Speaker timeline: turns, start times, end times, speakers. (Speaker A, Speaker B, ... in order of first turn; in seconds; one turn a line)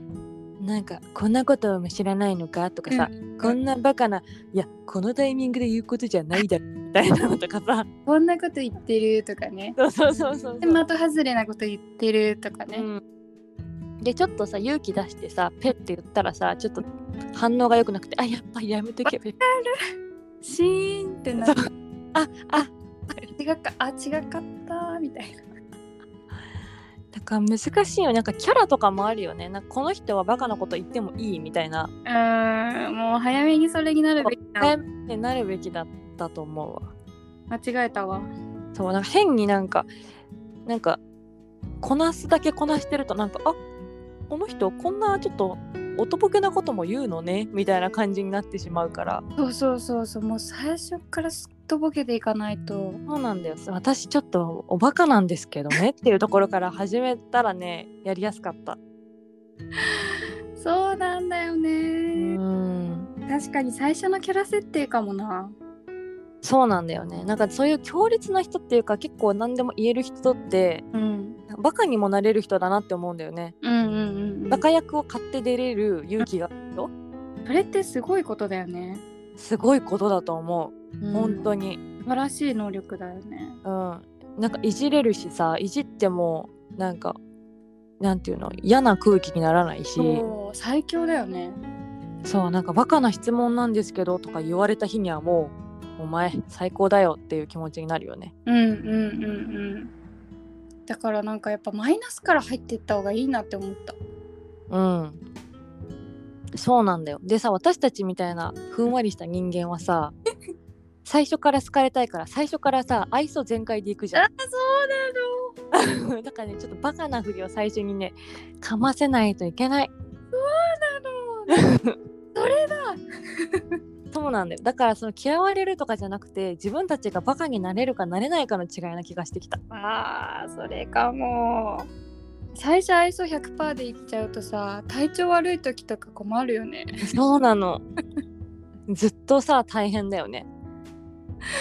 Speaker A: 0.6-7.9
Speaker B: 2.9-3.6
Speaker B: 8.1-9.8
Speaker A: 9.8-10.8
Speaker B: 10.6-12.9
Speaker A: 12.7-13.0
Speaker A: 14.0-19.4
Speaker B: 19.1-19.8
Speaker B: 20.4-21.7
Speaker A: 22.1-22.7
Speaker B: 23.3-25.4
Speaker A: 27.1-31.9
Speaker B: 32.1-34.8
Speaker A: 34.2-36.9
Speaker B: 37.5-38.3
Speaker A: 38.8-39.9
Speaker A: 40.7-41.0
Speaker A: 41.8-43.6
Speaker A: 44.3-49.2
Speaker B: 49.4-53.0
Speaker A: 53.1-58.8
Speaker B: 60.6-62.4
Speaker A: 62.1-63.1
Speaker B: 63.3-65.5
Speaker A: 66.4-70.8
Speaker B: 70.9-71.4
Speaker A: 71.5-73.5
Speaker B: 73.6-74.6
Speaker A: 74.5-76.9
Speaker B: 77.5-79.0
Speaker A: 79.4-81.8
Speaker B: 81.0-81.5
Speaker B: 82.0-83.6
Speaker A: 83.6-87.2
Speaker A: 88.0-90.2
Speaker B: 90.0-91.6
Speaker A: 92.2-98.3
Speaker B: 98.5-99.9
Speaker B: 100.9-104.0
Speaker A: 104.7-105.2
Speaker A: 106.6-110.2
Speaker A: 111.0-114.2
Speaker B: 114.2-115.6
Speaker A: 115.7-119.9
Speaker B: 120.3-121.7
Speaker A: 121.5-122.0
Speaker B: 122.3-123.7
Speaker A: 124.1-129.6
Speaker B: 129.7-131.9
Speaker B: 132.6-137.0
Speaker A: 137.0-137.8
Speaker A: 138.9-140.5